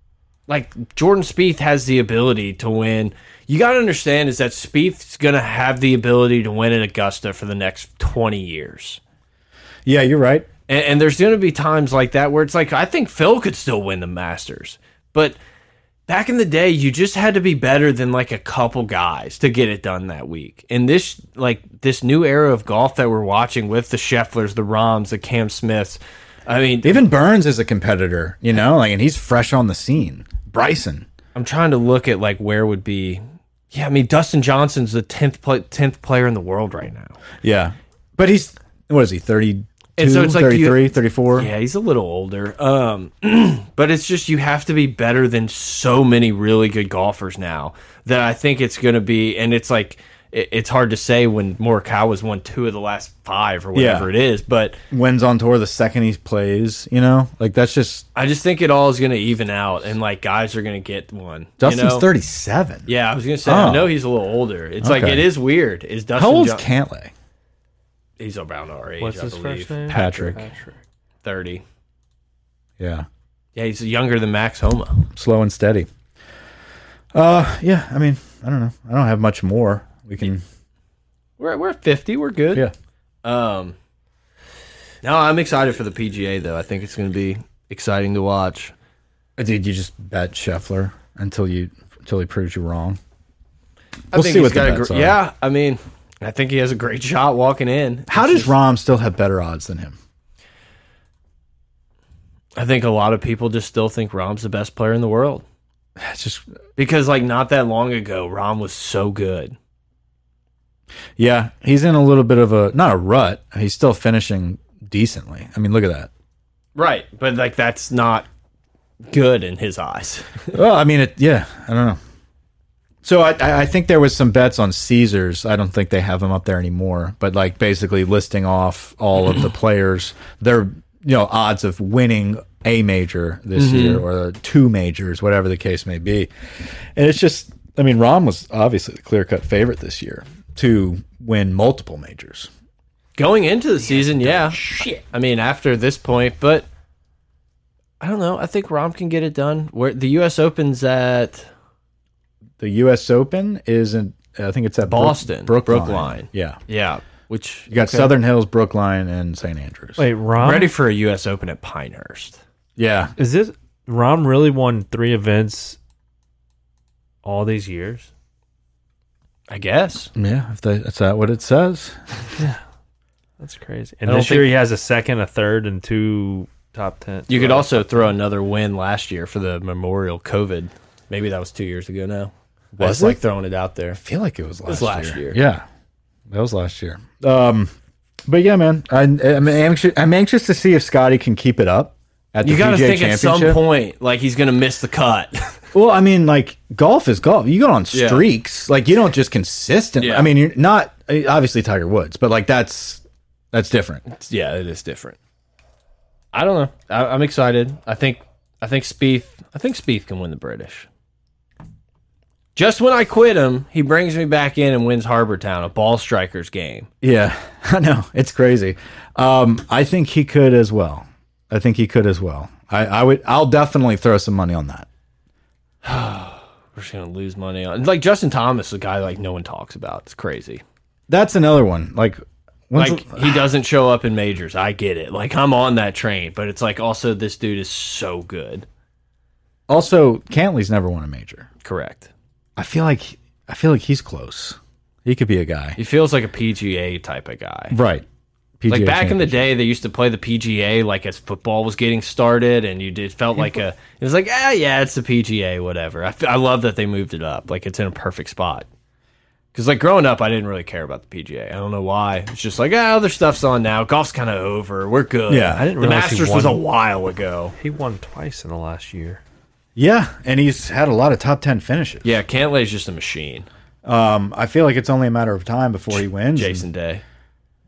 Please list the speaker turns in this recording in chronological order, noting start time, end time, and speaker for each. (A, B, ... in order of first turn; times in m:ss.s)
0:00.5-0:09.0 A
0:09.8-0:10.5 B
0:10.7-0:15.4 A
0:16.1-0:27.0 A
0:26.8-0:31.1 B
0:31.3-0:37.2 A
0:37.4-0:41.5 B
0:40.0-0:54.8 A
0:53.7-0:54.1 B
0:54.9-0:58.0 B
0:58.1-1:02.1 A
1:01.6-1:02.9 B
1:02.9-1:06.6 A
1:03.4-1:03.9 B
1:04.8-1:05.3 B
1:06.2-1:07.1 B
1:08.2-1:10.5 A
1:09.0-1:10.8 C
1:09.9-1:10.4 B
1:11.2-1:11.6 A
1:12.8-1:13.0 B
1:13.6-1:15.1 A
1:15.1-1:15.9 B
1:17.1-1:20.4 B
1:21.4-1:22.6 A
1:23.2-1:23.7 A
1:25.0-1:28.7 A
1:29.4-1:33.0 B
1:34.1-1:38.5 A
1:34.1-1:35.2 B
1:38.1-1:40.0 B
1:42.6-1:45.4 A
1:46.0-1:46.4 B
1:46.8-1:49.6 A
1:51.2-1:56.1 B
1:56.7-1:58.2 A
1:59.1-2:00.5 A
2:00.5-2:02.0 B
2:03.0-2:16.3 B
2:13.6-2:14.0 A
2:16.9-2:22.5 B
2:23.2-2:26.6 A
2:28.0-2:31.5 A
2:32.6-2:36.6 B
2:34.9-2:38.1 A
2:37.7-2:40.0 B
2:40.0-2:40.7 C
2:40.4-2:42.4 A
2:42.8-2:43.1 B
2:43.2-2:45.8 C
2:47.2-2:48.1 C
2:49.5-2:50.1 A
2:50.1-2:52.0 B
2:53.4-2:58.1 C
2:54.0-2:54.5 A
2:57.3-3:04.0 A
3:02.8-3:03.2 B
3:04.0-3:05.6 B
3:04.7-3:05.4 A
3:06.3-3:07.7 B
3:08.3-3:13.6 B
3:12.4-3:15.5 A
3:15.7-3:24.0 B
3:17.9-3:18.2 A
3:20.0-3:20.3 A
3:24.1-3:25.2 A
3:26.3-3:30.9 A
3:32.5-3:36.9 A
3:37.0-3:44.9 B
3:45.8-3:50.6 A
3:51.1-3:53.4 B
3:52.8-3:58.6 A
3:59.7-4:01.5 B
4:01.6-4:02.1 A
4:02.6-4:05.8 B
4:05.8-4:07.8 A
4:07.7-4:08.0 B
4:08.6-4:09.4 B
4:08.7-4:18.6 A
4:19.5-4:27.5 A
4:25.3-4:25.6 B
4:25.5-4:26.6 C
4:27.6-4:29.2 C
4:29.8-4:32.1 B
4:32.0-4:33.5 A
4:33.8-4:36.7 B
4:35.9-4:37.0 A